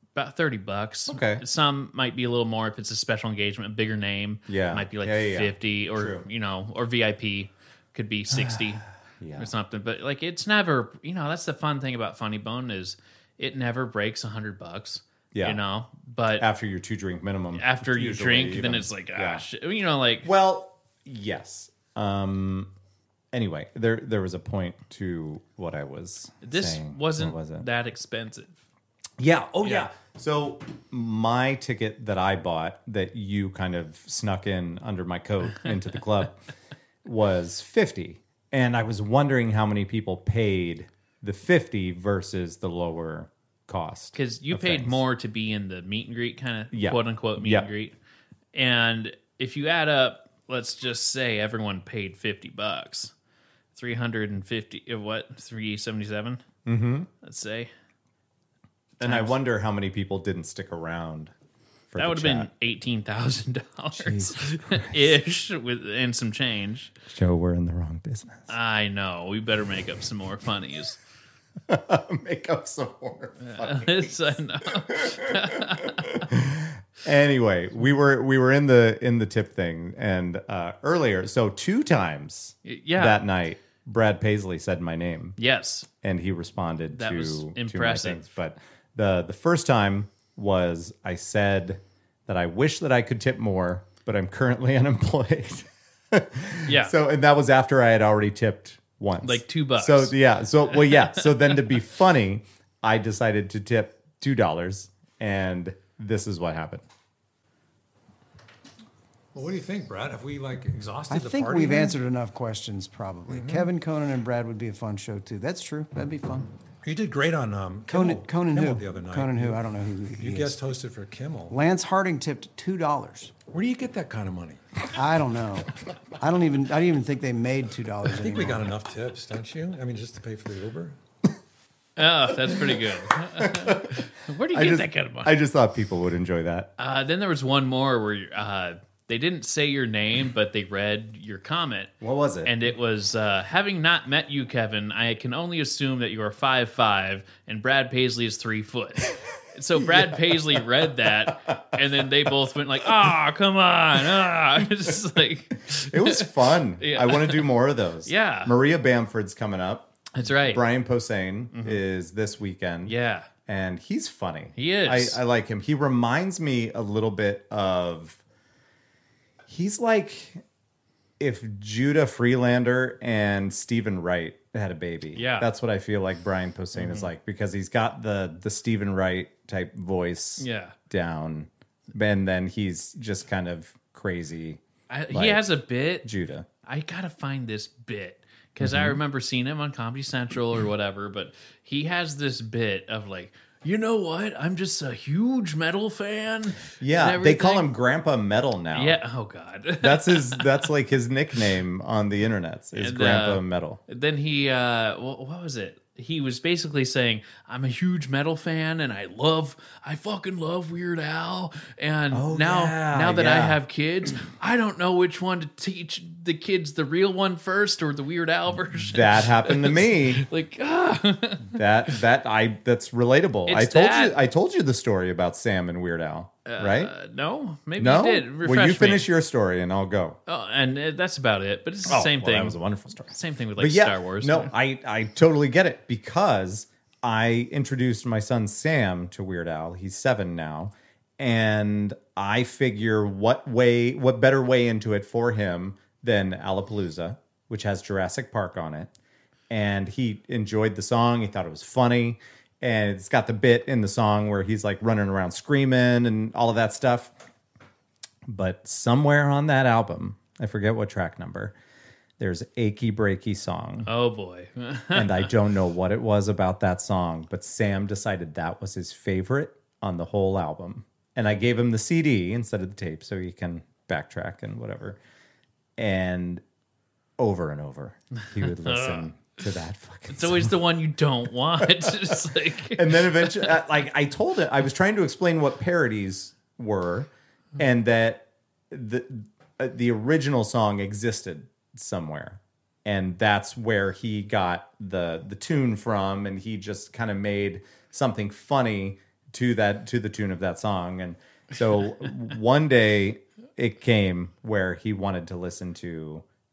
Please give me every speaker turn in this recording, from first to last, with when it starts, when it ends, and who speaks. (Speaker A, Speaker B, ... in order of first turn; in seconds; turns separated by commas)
Speaker A: 0.1-8.8, Speaker B: 1.1-1.4, Speaker B: 4.5-6.2, Speaker B: 8.3-9.5, Speaker A: 9.4-16.4, Speaker B: 15.3-15.6, Speaker B: 16.4-19.4, Speaker A: 17.6-20.3, Speaker B: 20.2-22.7, Speaker B: 23.3-27.7, Speaker A: 26.4-28.6, Speaker B: 29.2-36.4, Speaker B: 37.0-45.0, Speaker A: 44.1-48.0, Speaker B: 46.7-47.7, Speaker A: 48.5-53.1, Speaker A: 53.8-56.4, Speaker B: 56.7-57.1, Speaker A: 57.2-57.7, Speaker B: 59.0-61.3, Speaker A: 59.0-59.4, Speaker B: 61.9-62.5, Speaker A: 62.0-66.9, Speaker B: 64.0-65.2, Speaker B: 67.1-68.5, Speaker A: 68.5-71.0, Speaker B: 71.7-85.4, Speaker A: 73.4-76.3, Speaker A: 82.7-83.2, Speaker A: 85.4-85.9, Speaker B: 86.0-106.8, Speaker A: 87.0-88.2, Speaker A: 96.7-96.9, Speaker A: 99.2-101.7, Speaker C: 109.3-112.0, Speaker D: 111.1-116.5, Speaker C: 113.3-113.7, Speaker C: 116.8-119.6, Speaker D: 117.9-120.6, Speaker C: 120.2-121.6, Speaker D: 121.5-123.3, Speaker C: 123.5-124.6, Speaker D: 124.9-128.7, Speaker C: 128.1-131.0, Speaker A: 132.0-135.3, Speaker B: 132.5-132.8, Speaker B: 133.4-136.7, Speaker A: 136.8-157.5, Speaker B: 142.0-142.5, Speaker B: 149.8-150.6, Speaker B: 151.5-151.8, Speaker B: 155.7-162.9, Speaker A: 158.1-158.5, Speaker A: 160.1-160.6, Speaker A: 161.5-161.8, Speaker A: 162.9-163.3, Speaker B: 163.5-168.2, Speaker A: 164.6-165.2, Speaker B: 169.5-170.4, Speaker B: 171.2-185.4, Speaker A: 175.2-175.5, Speaker A: 176.8-177.1, Speaker A: 180.4-180.8, Speaker A: 184.9-186.1, Speaker B: 186.0-186.5, Speaker A: 186.6-197.7, Speaker B: 188.6-189.0, Speaker B: 196.8-199.0, Speaker A: 198.7-200.7, Speaker B: 199.8-203.8, Speaker A: 202.8-221.6, Speaker B: 212.1-213.6, Speaker B: 218.7-220.3, Speaker B: 221.5-226.9, Speaker A: 223.5-224.2, Speaker A: 226.5-229.1, Speaker B: 227.8-230.2, Speaker A: 230.3-232.6, Speaker B: 231.9-248.9, Speaker A: 233.1-234.5, Speaker B: 249.5-257.1, Speaker B: 258.3-261.6, Speaker B: 262.2-263.9, Speaker A: 263.9-265.3, Speaker B: 264.9-275.0, Speaker B: 275.8-276.4, Speaker B: 277.2-280.6, Speaker A: 278.4-279.1, Speaker A: 280.1-283.5, Speaker B: 281.9-282.2, Speaker B: 282.7-306.2